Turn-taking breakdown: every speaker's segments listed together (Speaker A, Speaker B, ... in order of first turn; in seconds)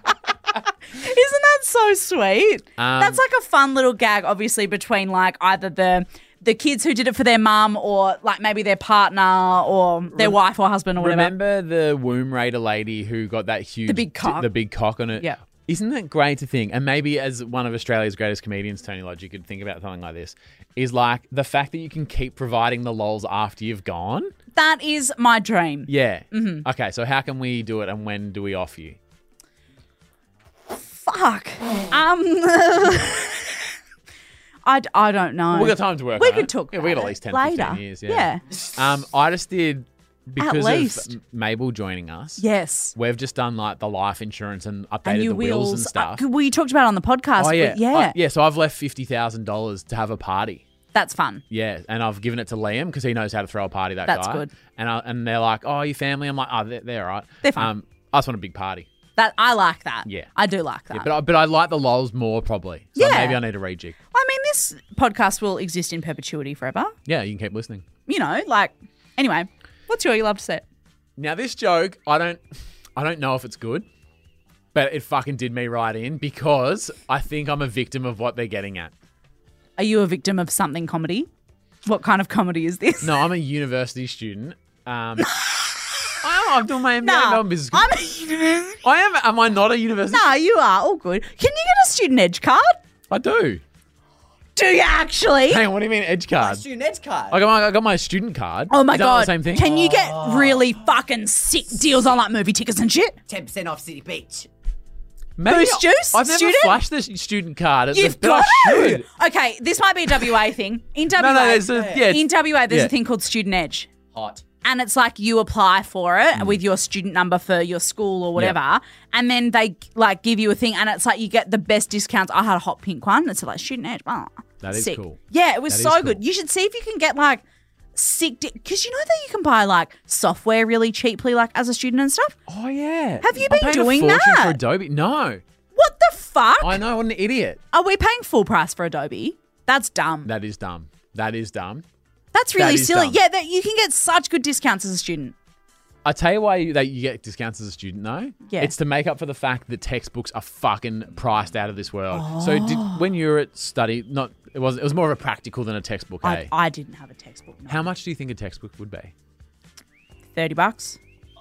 Speaker A: 0.9-11.3, 13.9-14.5, 24.5-26.6, 31.0-33.7, 34.6-38.4, 40.4-41.1, 42.4-42.9, 45.0-48.1, 50.9-51.4, 54.0-54.5, 57.4-57.7, 59.2-61.1, 63.0-63.4, 64.1-66.9, 68.1-70.6, 79.8-81.3, 81.8-83.2, 85.2-85.7, 87.0-88.8, 90.1-92.8, 94.5-95.6, 98.7-103.2, 105.4-106.8, 107.9-113.9, 114.6-127.4, 127.9-132.4, 133.2-134.6, 135.7-136.8, 137.7-140.3, 142.3-145.3, 148.5-148.7, 152.1-153.0, 156.2-157.8, 160.3-161.0
Speaker B: 2.8-3.2, 11.0-24.3, 25.9-29.0, 35.5-46.2, 47.4-50.6, 51.5-58.9, 60.9-64.0, 67.0-67.9, 71.2-72.4, 73.0-73.9, 74.7-78.9, 83.0-85.3, 86.2-87.9, 88.8-90.3, 93.1-93.6, 95.5-96.6, 97.3-99.7, 105.4-109.1, 111.1-112.9, 124.6-126.2, 132.5-135.4, 136.6-137.6, 140.2-141.8, 142.5-143.2, 146.0-156.5, 157.7-159.1
Speaker C: 96.4-97.4, 99.6-100.8, 103.3-104.5, 111.7-112.0, 114.1-114.5